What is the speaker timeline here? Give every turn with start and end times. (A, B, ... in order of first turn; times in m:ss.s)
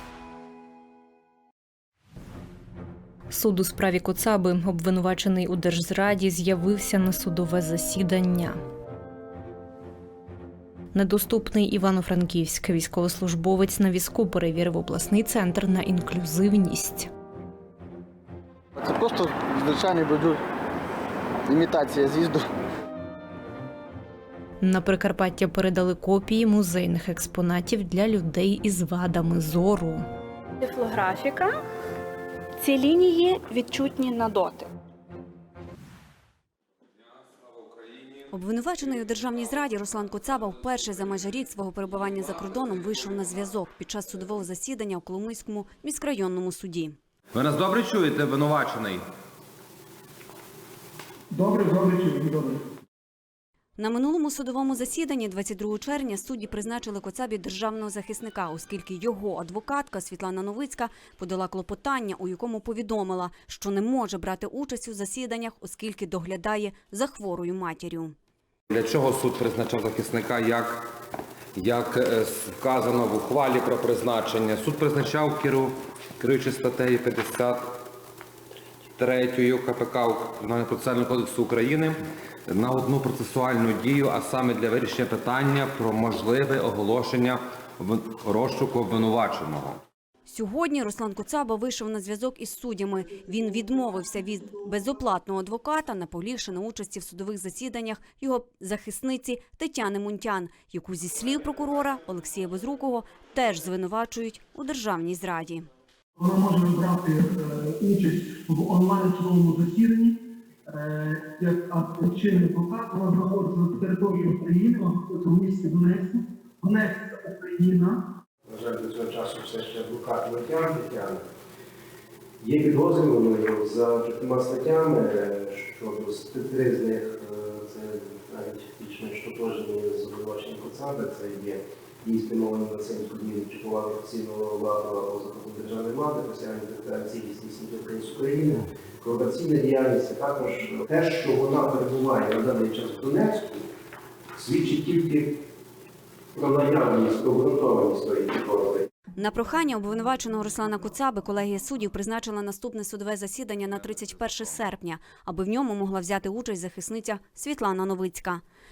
0:03.3-0:08.6 A
0:10.9-0:17.1 A
0:18.8-0:20.4 B
0:21.4-0:22.4 B
0:24.6-0:30.0 A
0:30.6-0:31.6 C
0:32.6-0:34.7 C
0:38.3-0:47.0 D
0:47.3-0:49.0 E
0:51.4-0:52.5 F
0:53.8-1:08.1 D
1:08.7-1:10.8 E
1:11.5-1:17.6 E
1:19.0-1:29.8 E
1:30.3-1:45.7 D
1:46.2-1:50.1 F
1:50.8-1:57.9 F
1:58.5-2:01.2 G
2:02.4-2:23.6 G
2:24.4-2:25.3 G
2:26.4-2:28.9 G
2:29.2-2:38.4 D